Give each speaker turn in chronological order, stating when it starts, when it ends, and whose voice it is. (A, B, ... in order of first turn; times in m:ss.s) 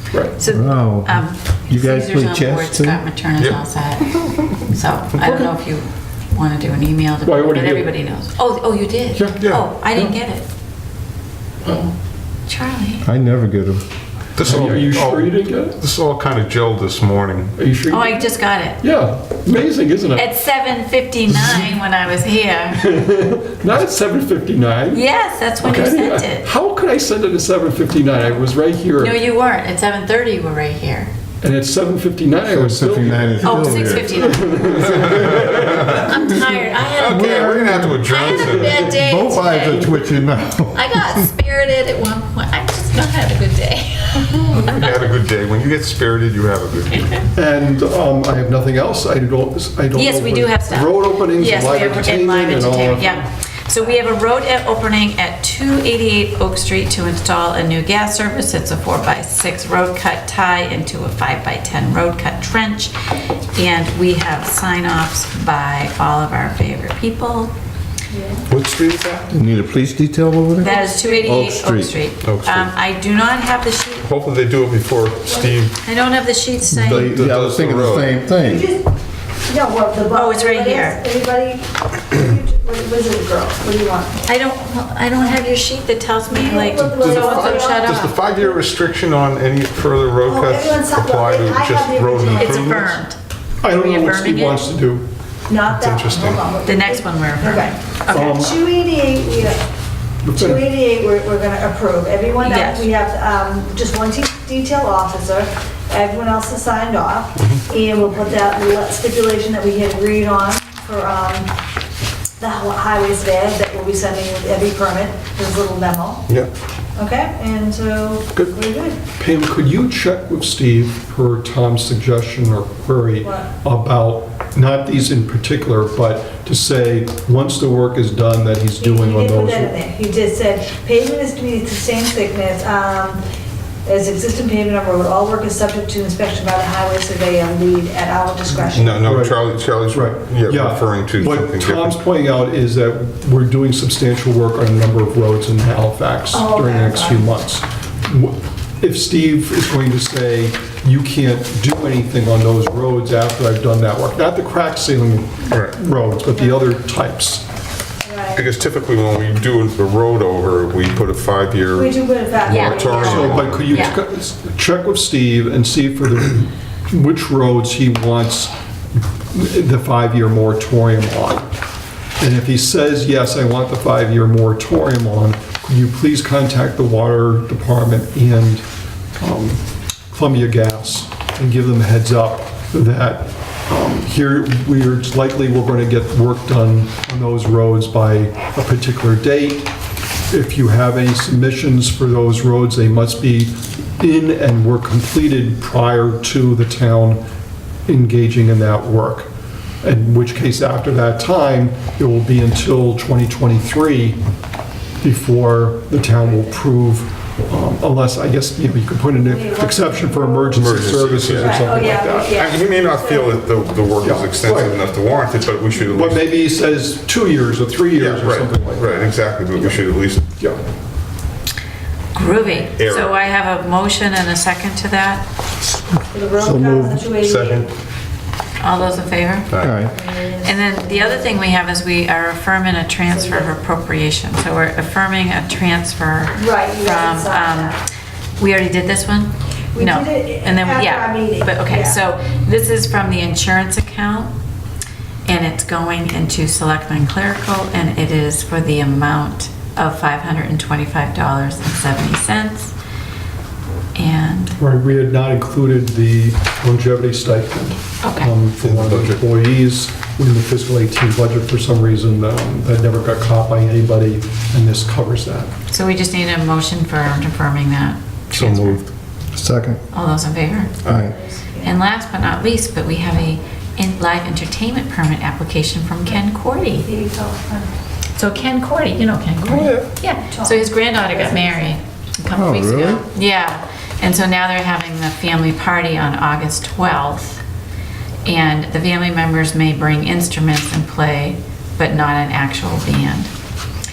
0:00.1-0:00.4 A
0:00.4-0:04.1 B
0:00.5-0:03.0 C
0:03.4-0:04.4 D
0:04.7-0:10.4 B
0:05.2-0:05.5 A
0:07.2-0:07.9 A
0:09.1-0:09.4 A
0:09.4-0:09.7 D
0:09.9-0:10.2 A
0:11.6-0:11.9 A
0:12.5-0:13.0 B
0:13.0-0:13.8 C
0:14.4-0:17.5 D
0:14.4-0:15.8 A
0:17.6-0:20.3 A
0:17.9-0:18.8 B
0:20.1-0:22.8 B
0:21.3-0:21.8 A
0:22.8-0:25.0 A
0:24.9-0:26.5 B
0:25.6-0:29.2 A
0:29.0-0:31.1 B
0:31.4-0:36.2 A
0:32.5-0:35.4 C
0:33.4-0:34.7 B
0:34.9-0:36.0 D
0:36.0-0:40.1 B
0:37.0-0:38.8 D
0:37.0-0:41.3 C
0:40.7-0:45.0 B
0:44.4-0:47.0 D
0:46.8-0:47.3 B
0:47.3-0:53.3 A
0:49.9-1:02.9 B
1:03.5-1:07.5 B
1:08.1-1:08.4 E
1:08.5-1:09.3 D
1:09.3-1:11.9 C
1:10.6-1:11.4 E
1:10.6-1:14.0 B
1:12.2-1:12.7 D
1:14.0-1:15.8 D
1:15.2-1:15.6 E
1:15.8-1:17.1 B
1:16.7-1:18.6 C
1:16.8-1:18.2 D
1:18.4-1:18.9 E
1:19.5-1:24.2 E
1:20.1-1:21.0 B
1:24.3-1:28.2 B
1:26.3-1:28.0 E
1:26.9-1:33.0 D
1:30.2-1:33.0 E
1:32.4-1:34.6 B
1:33.6-1:35.1 A
1:35.5-1:37.8 E
1:35.7-1:36.4 D
1:36.6-1:38.4 B
1:38.1-1:38.6 A
1:38.4-1:39.6 E
1:40.2-1:40.6 A
1:40.4-1:51.5 E
1:42.4-1:42.9 B
1:52.4-1:56.3 E
1:57.0-1:59.0 E
1:59.1-2:09.7 A
2:08.8-2:13.2 E
2:13.9-2:19.1 E
2:18.7-2:22.0 D
2:19.0-2:37.4 A
2:26.3-2:27.2 E
2:35.5-2:35.8 D
2:38.0-2:38.4 E
2:38.3-2:43.9 D
2:41.7-2:43.5 E
2:42.5-2:44.0 B
2:42.7-2:48.5 A
2:49.3-2:51.5 A
2:52.2-2:58.6 A
2:59.2-3:09.7 A
3:10.3-3:17.2 A
3:17.9-3:19.3 A
3:19.8-3:24.2 A
3:25.0-3:32.4 A
3:29.2-3:30.6 E
3:30.5-3:31.8 D
3:31.4-3:33.4 E
3:32.3-3:36.3 D
3:34.0-3:34.8 A
3:35.8-3:40.6 A
3:37.9-3:40.3 D
3:42.1-3:45.2 B
3:42.7-3:43.2 D
3:46.1-3:47.7 E
3:46.4-3:47.1 C
3:47.2-3:47.7 D
3:48.6-3:49.5 B
3:49.5-3:49.9 D
3:49.6-3:49.9 C
3:49.8-3:51.3 E
3:50.4-3:57.8 B
3:53.1-3:53.5 E
3:56.4-3:57.8 E
3:58.4-4:04.3 B
3:59.7-4:02.0 E
4:05.3-4:12.7 B
4:14.0-4:14.6 B
4:14.6-4:25.5 A
4:18.0-4:18.3 B
4:18.6-4:19.2 D
4:25.7-4:28.8 B
4:28.3-4:28.9 D
4:29.4-4:29.8 C
4:29.9-4:30.8 B
4:30.8-4:31.1 D
4:30.9-4:31.8 E
4:31.6-4:36.9 B
4:36.8-4:37.7 E
4:38.2-4:47.4 B
4:39.5-4:39.9 D
4:40.2-4:41.8 E
4:42.3-4:43.0 C
4:48.3-4:53.3 B